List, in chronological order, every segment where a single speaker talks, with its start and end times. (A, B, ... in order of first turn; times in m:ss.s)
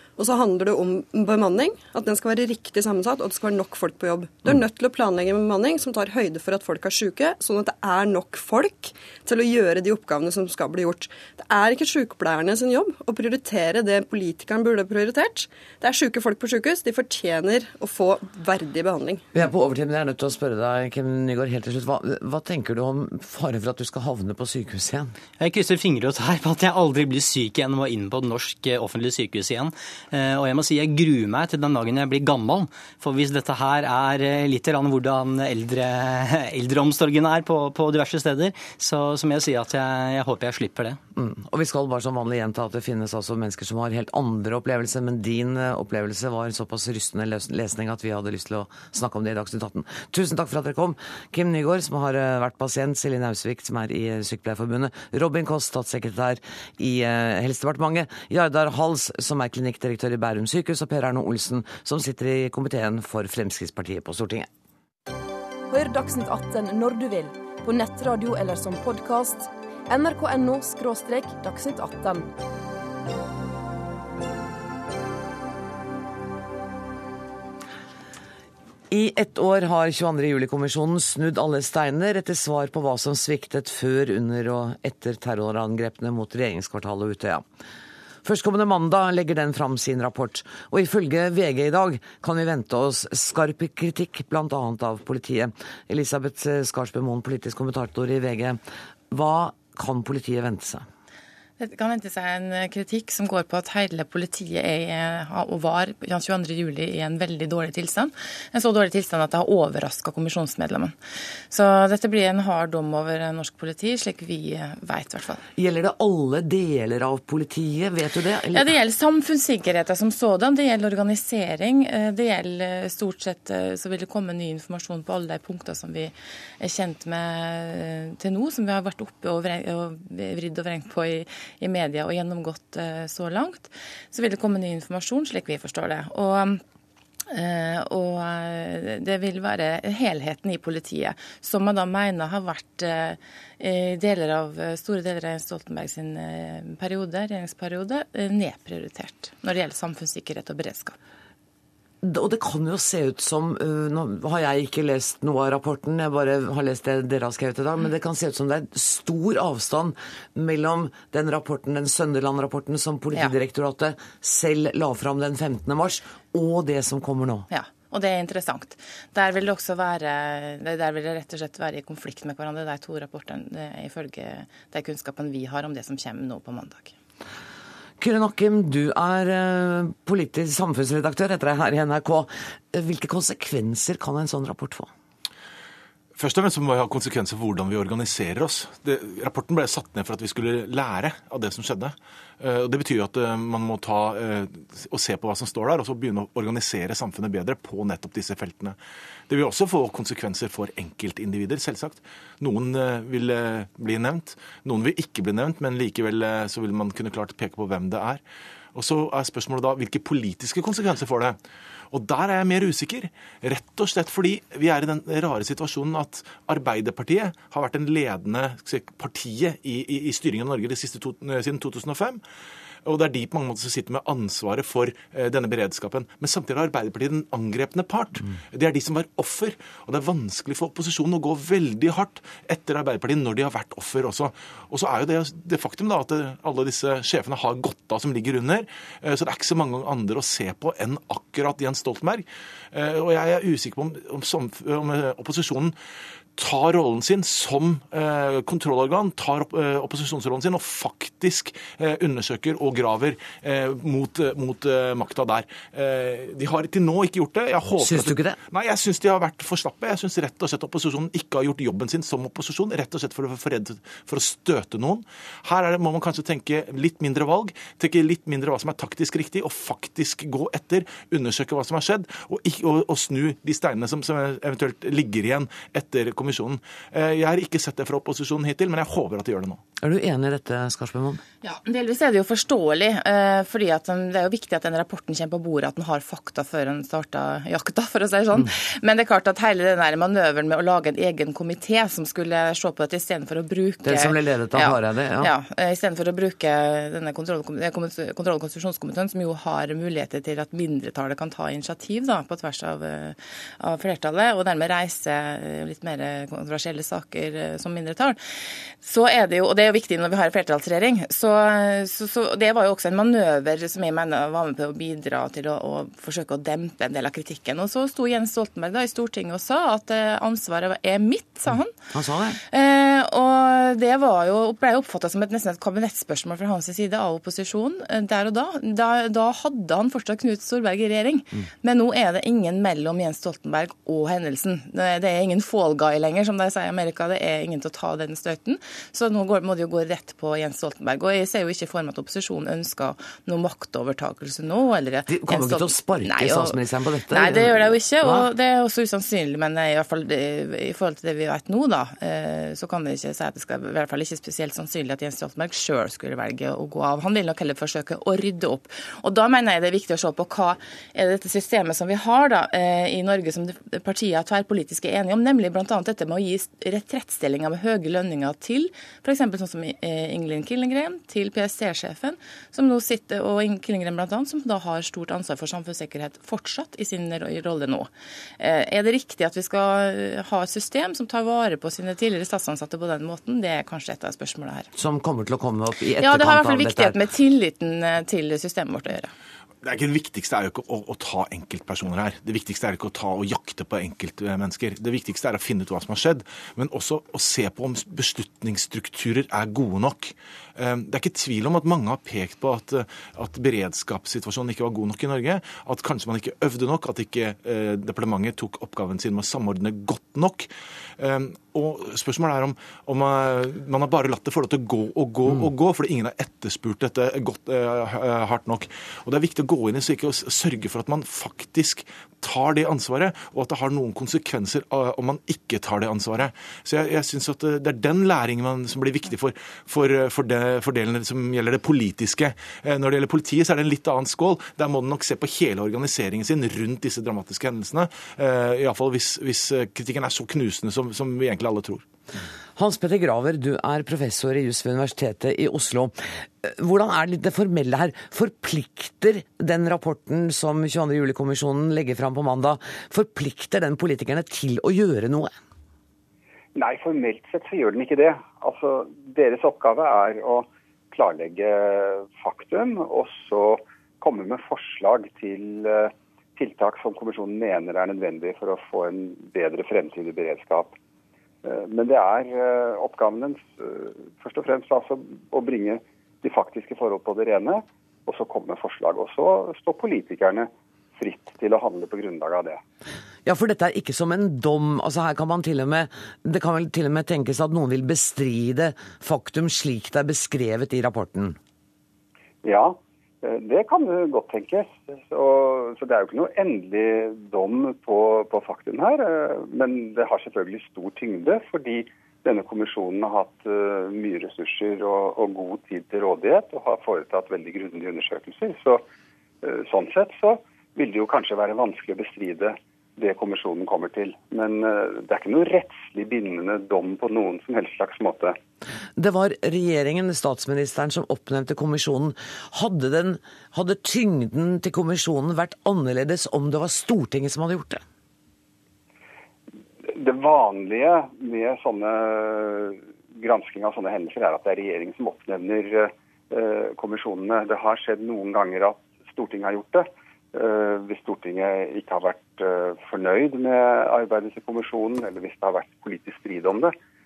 0:00.2-0:19.2 A
0:19.3-0:25.1 B
0:25.4-0:41.0 C
0:41.2-1:04.5 B
1:05.7-1:12.3 D
1:18.9-1:27.4 B
1:28.2-1:38.6 B
1:39.1-1:40.8 B
1:41.6-1:51.0 E
1:51.5-1:55.4 E
1:55.6-1:58.7 B
1:58.5-2:16.6 E
2:17.3-2:30.9 E
2:32.0-2:47.5 B
2:47.5-2:56.9 E
2:58.0-3:04.9 B
3:06.1-3:18.8 F
3:19.3-3:28.2 F
3:28.7-3:31.4 F
3:31.9-3:42.2 F
3:42.8-4:05.7 F
4:06.4-4:39.6 F
4:17.8-4:18.4 B
4:39.8-4:41.2 B
4:41.4-5:08.2 E
4:53.8-4:55.3 B
5:08.8-5:21.7 E
5:21.9-5:22.4 B
5:22.5-5:46.6 E
5:45.1-5:48.3 B
5:47.1-6:17.9 E
6:18.4-6:24.7 E
6:24.7-6:27.0 B
6:26.0-6:29.1 E
6:29.6-7:21.8 F
7:22.6-7:35.3 B
7:36.5-7:50.8 G
7:51.4-8:02.6 G
8:03.2-8:11.4 B
8:12.4-8:28.8 G
8:29.4-8:38.4 G
8:39.0-8:47.8 B
8:49.9-9:06.7 G